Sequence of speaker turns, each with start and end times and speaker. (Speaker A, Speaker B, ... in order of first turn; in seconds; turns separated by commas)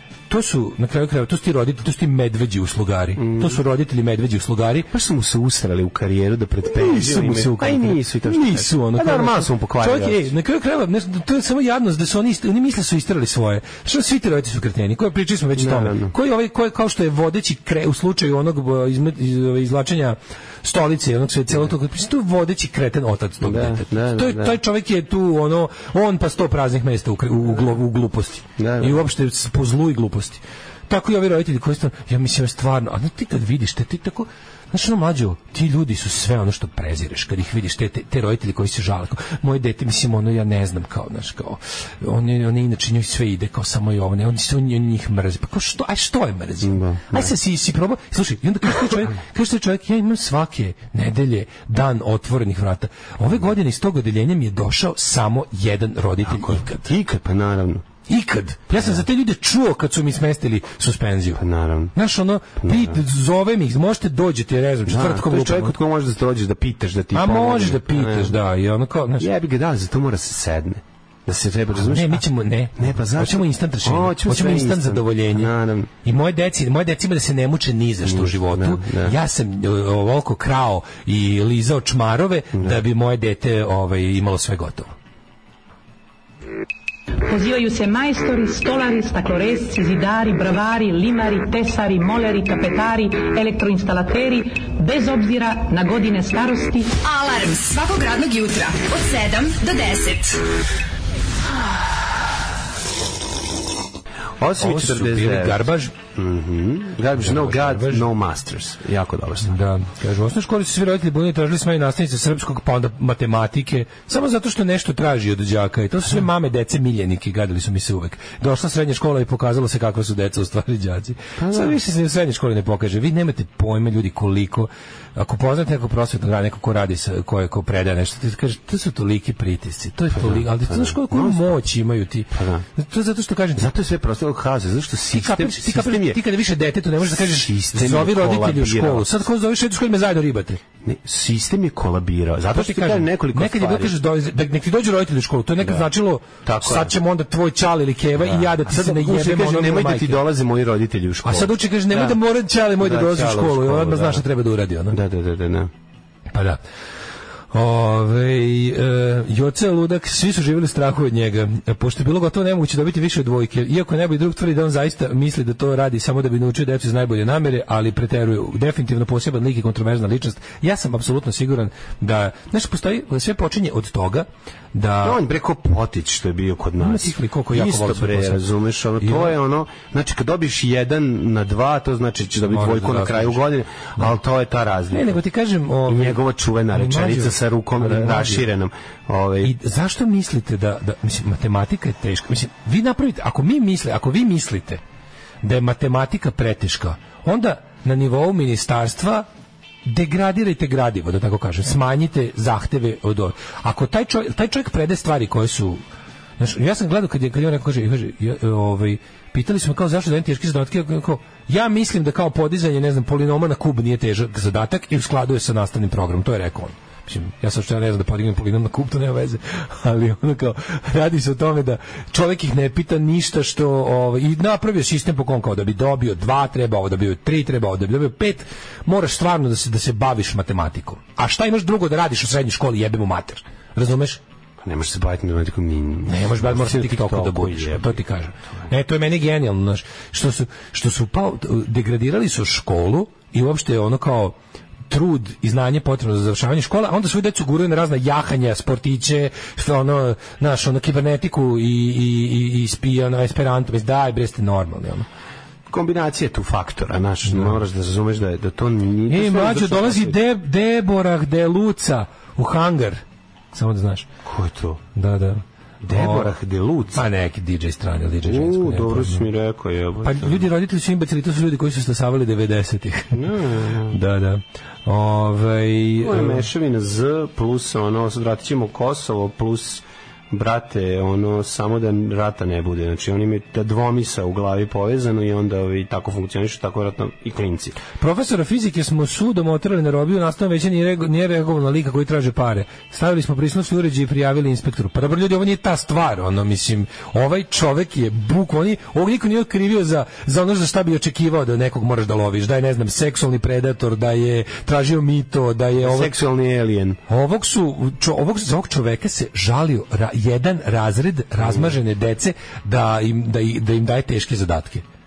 Speaker A: 0.3-4.9, Speaker B: 3.2-3.6, Speaker B: 4.9-10.3, Speaker A: 6.7-56.9, Speaker B: 15.6-16.1, Speaker B: 23.4-24.6, Speaker B: 28.6-29.0, Speaker B: 46.6-47.3, Speaker B: 56.2-57.9, Speaker A: 58.1-61.4, Speaker B: 58.7-59.0, Speaker B: 61.4-61.9, Speaker A: 61.9-65.8, Speaker B: 62.6-63.0, Speaker B: 64.9-68.4, Speaker A: 67.1-69.3, Speaker B: 69.2-72.2, Speaker A: 71.7-75.5, Speaker B: 72.8-75.9, Speaker A: 76.0-84.9, Speaker B: 78.0-79.1, Speaker B: 82.5-82.8, Speaker C: 87.3-97.0, Speaker D: 97.0-100.4, Speaker B: 104.4-109.6, Speaker A: 104.6-105.9, Speaker A: 107.2-108.1, Speaker A: 109.4-133.7, Speaker B: 121.4-121.8, Speaker B: 130.1-131.6, Speaker B: 132.3-132.6, Speaker B: 133.6-136.2, Speaker A: 135.1-140.6, Speaker B: 137.1-139.1, Speaker B: 140.8-143.9, Speaker A: 142.5-150.2, Speaker B: 145.6-145.9, Speaker B: 146.4-146.9, Speaker B: 148.2-152.2, Speaker A: 151.2-155.0, Speaker B: 152.8-154.2, Speaker B: 154.9-155.7, Speaker A: 156.3-156.6, Speaker A: 157.5-175.2, Speaker B: 175.0-185.2, Speaker A: 176.8-178.4, Speaker A: 179.0-179.3, Speaker A: 182.4-183.4, Speaker A: 184.9-186.2, Speaker B: 185.9-189.5, Speaker A: 186.7-188.4, Speaker A: 189.4-194.8, Speaker A: 195.4-199.2, Speaker A: 199.8-205.8, Speaker A: 206.4-234.2, Speaker B: 234.6-238.0, Speaker A: 236.1-244.3, Speaker A: 244.9-255.1, Speaker B: 255.7-260.1, Speaker A: 257.3-257.6, Speaker A: 259.1-264.1, Speaker B: 264.2-264.8, Speaker A: 264.9-266.4, Speaker B: 265.8-267.0, Speaker A: 266.9-269.3, Speaker B: 268.2-270.4, Speaker A: 270.0-273.3, Speaker B: 273.1-274.0, Speaker A: 273.9-276.4, Speaker B: 276.0-287.8, Speaker A: 288.0-306.1, Speaker B: 305.8-307.0, Speaker A: 307.1-314.8, Speaker B: 311.4-311.7